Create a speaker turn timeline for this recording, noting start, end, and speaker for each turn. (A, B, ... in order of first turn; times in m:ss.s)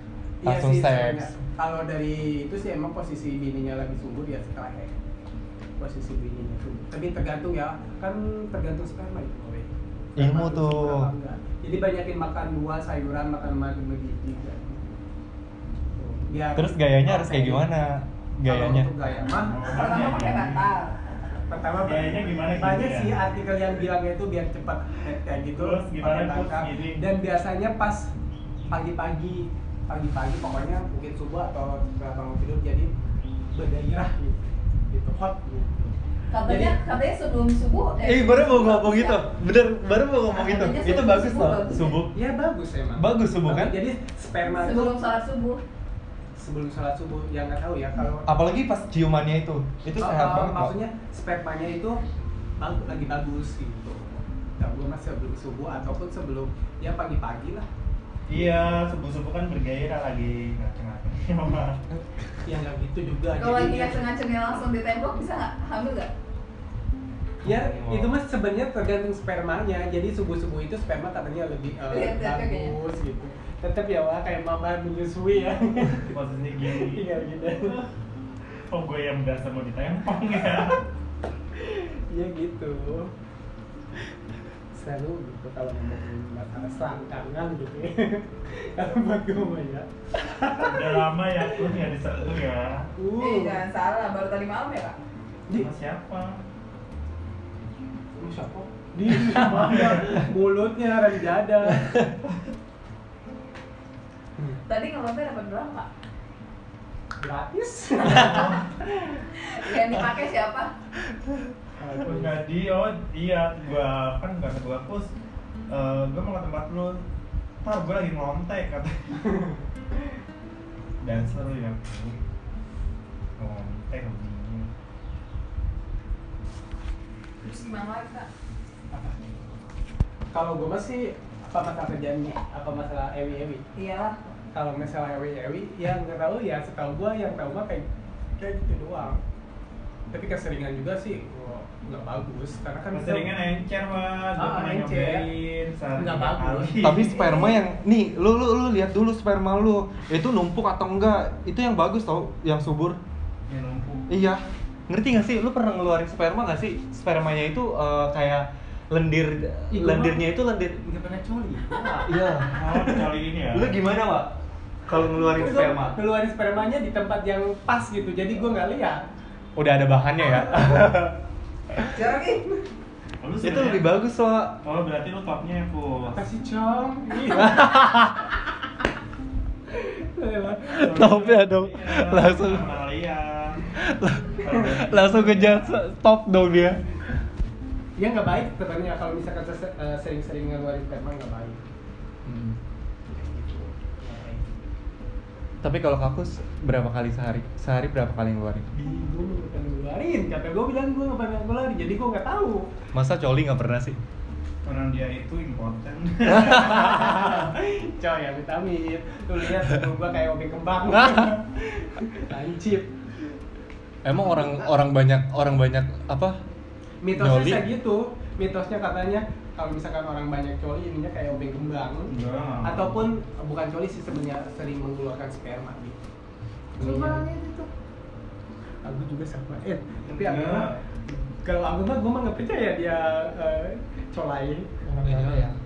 0:00.4-0:05.0 A
0:00.4-0:01.4 B
0:05.8-0:14.9 A
0:10.2-0:11.1 B
0:16.0-0:17.7 A
0:16.6-0:18.9 B
0:18.4-0:19.6 A
0:19.4-0:20.7 C
0:19.7-0:21.0 D
0:21.3-0:28.1 A
0:21.8-0:23.2 C
0:25.5-0:27.0 C
0:28.7-0:32.9 A
0:33.5-0:36.8 A
0:36.3-0:39.2 D
0:38.0-0:42.1 B
0:40.3-0:42.0 D
0:42.1-0:45.0 A
0:43.0-0:43.7 B
0:44.6-0:45.6 D
0:46.4-0:48.3 A
0:48.3-0:50.7 B
0:50.0-0:52.0 A
0:52.6-0:57.7 A
0:58.3-1:01.8 C
1:02.4-1:04.1 A
1:03.4-1:06.1 D
1:07.4-1:16.2 A
1:07.4-1:08.1 B
1:11.9-1:12.8 D
1:16.1-1:17.1 C
1:16.7-1:17.8 A
1:18.7-1:20.8 C
1:21.5-1:23.1 A
1:24.7-1:31.0 A
1:30.5-1:32.9 C
1:33.0-1:33.6 A
1:33.1-1:35.0 D
1:35.5-1:36.4 C
1:38.2-1:42.0 A
1:44.7-1:45.9 D
1:47.2-1:49.2 A
1:48.2-1:48.6 C
1:49.4-1:50.7 D
1:51.8-1:52.4 A
1:52.0-1:55.1 C
1:55.7-1:57.0 C
1:57.6-1:59.1 C
1:59.2-1:59.6 A
2:01.0-2:02.2 C
2:03.4-2:04.7 C
2:07.4-2:08.3 D
2:08.9-2:09.2 A
2:10.3-2:13.6 A
2:13.8-2:14.2 D
2:14.5-2:17.8 A
2:18.4-2:19.2 A
2:20.1-2:23.4 A
2:22.9-2:27.1 C
2:24.4-2:25.3 A
2:26.0-2:27.6 A
2:26.8-2:33.0 B
2:33.5-2:34.1 C
2:34.1-2:40.9 B
2:39.7-2:40.2 A
2:41.2-2:42.2 A
2:41.8-2:44.4 B
2:42.5-2:43.8 C
2:44.9-2:46.0 B
2:45.2-2:49.0 A
2:49.6-2:51.1 B
2:51.9-2:52.5 D
2:53.2-2:54.1 C
2:53.4-2:54.6 B
2:54.6-2:56.2 C
2:56.1-2:57.7 A
2:57.4-2:58.3 B
2:59.7-3:01.1 A
3:00.7-3:02.8 B
3:00.7-3:03.8 C
3:03.8-3:06.8 B
3:04.3-3:05.8 C
3:08.0-3:11.6 A
3:12.3-3:12.6 B
3:13.1-3:14.5 A
3:15.6-3:18.6 B
3:18.7-3:22.7 A
3:22.9-3:24.0 B
3:24.6-3:27.3 C
3:26.6-3:32.9 A
3:34.0-3:36.4 B
3:34.1-3:34.7 A
3:37.0-3:46.0 A
3:37.2-3:37.6 B
3:42.1-3:43.1 C
3:46.8-3:47.4 A
3:46.8-3:47.2 B
3:48.8-3:50.8 A
3:50.0-3:50.8 C
3:51.4-3:54.9 A
3:55.0-3:55.6 B